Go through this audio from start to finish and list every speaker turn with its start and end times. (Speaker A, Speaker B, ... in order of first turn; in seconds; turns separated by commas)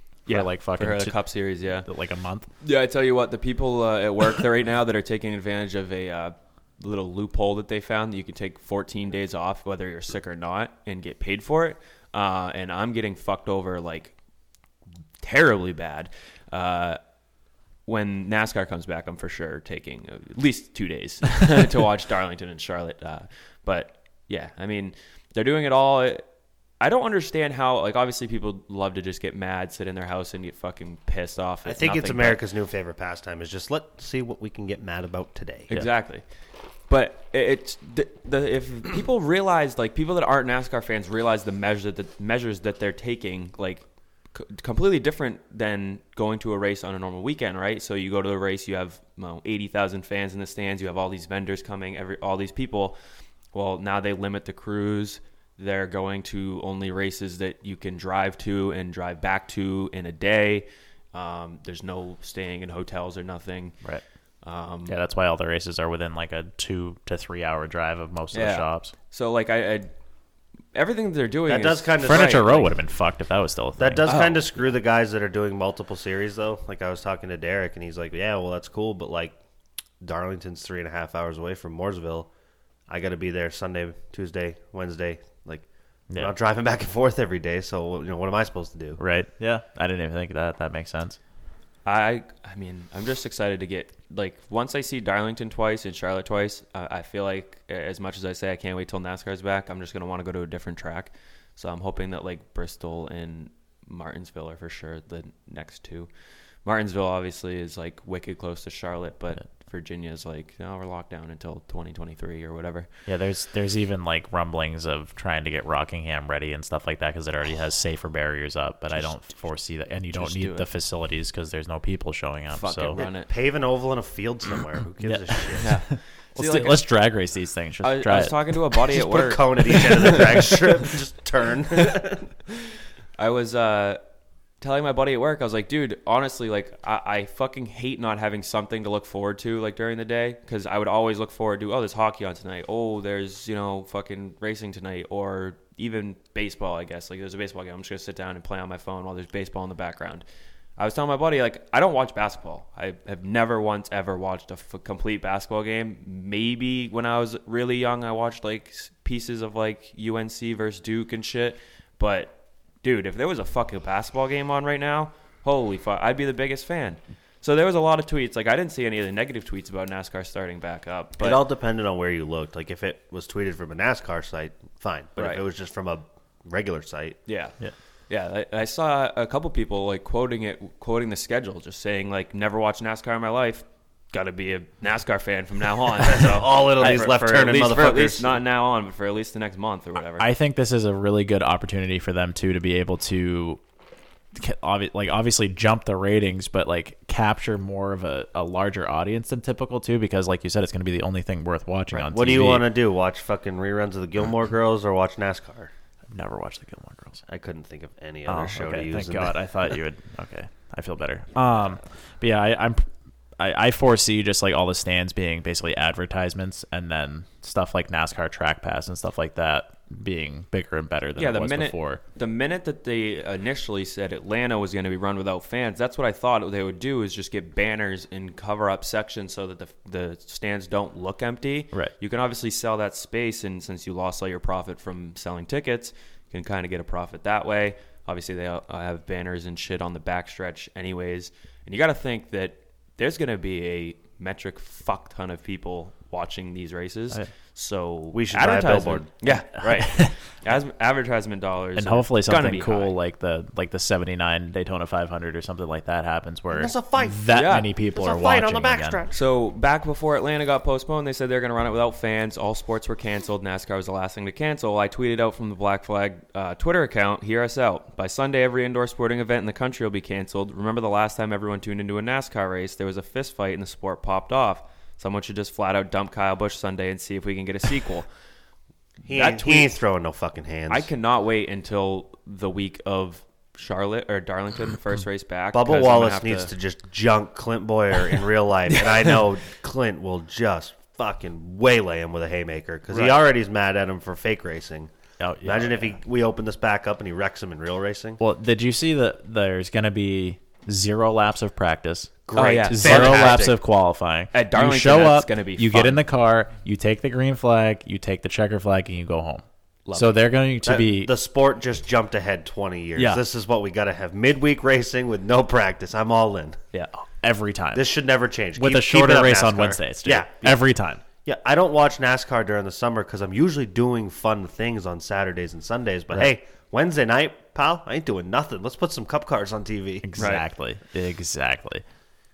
Speaker A: 0.3-1.2, Speaker B: 0.3-1.9, Speaker A: 1.7-2.5, Speaker B: 2.6-14.1, Speaker B: 15.2-17.0, Speaker B: 17.9-26.2, Speaker B: 26.8-32.4, Speaker C: 31.6-35.7, Speaker B: 35.7-36.2, Speaker B: 36.9-53.0, Speaker B: 53.5-63.7, Speaker B: 64.4-64.9, Speaker A: 64.9-68.9, Speaker B: 68.3-69.9, Speaker B: 70.7-72.7, Speaker C: 71.5-72.7, Speaker A: 72.0-74.1, Speaker C: 73.8-79.3, Speaker B: 74.0-74.4, Speaker C: 80.0-82.3, Speaker C: 82.9-89.0, Speaker A: 89.0-91.2, Speaker B: 91.8-106.1, Speaker B: 106.6-112.9, Speaker A: 113.1-123.0, Speaker B: 120.1-120.7, Speaker B: 122.5-123.3, Speaker C: 122.9-125.7, Speaker A: 125.0-128.8, Speaker B: 125.6-126.8, Speaker B: 127.8-130.2, Speaker C: 128.9-132.3, Speaker B: 133.2-134.0, Speaker B: 134.6-150.2, Speaker B: 150.8-171.4, Speaker C: 171.2-177.2, Speaker B: 175.2-175.4, Speaker B: 177.3-177.6, Speaker B: 178.1-190.3, Speaker C: 186.0-188.4, Speaker A: 190.2-193.6, Speaker A: 194.3-202.7, Speaker C: 201.9-205.7, Speaker A: 206.1-207.2, Speaker C: 207.3-209.3, Speaker A: 208.3-212.9, Speaker A: 213.4-222.0, Speaker B: 221.2-252.9, Speaker C: 248.1-249.1, Speaker A: 249.5-250.2, Speaker A: 251.8-259.0, Speaker C: 256.5-259.2, Speaker B: 257.3-257.7, Speaker B: 259.1-278.1, Speaker C: 279.0-280.9, Speaker B: 279.1-279.7, Speaker B: 280.7-286.5, Speaker C: 285.5-294.9, Speaker A: 295.2-295.9, Speaker C: 295.4-298.2, Speaker A: 298.2-311.1, Speaker C: 302.3-303.6, Speaker B: 302.3-303.4, Speaker B: 304.3-306.0, Speaker B: 309.9-310.1, Speaker C: 310.6-316.6, Speaker A: 312.9-313.2, Speaker A: 316.9-317.9, Speaker C: 317.7-320.6, Speaker A: 318.6-321.0, Speaker C: 321.2-330.1, Speaker A: 330.0-331.8, Speaker B: 330.2-330.4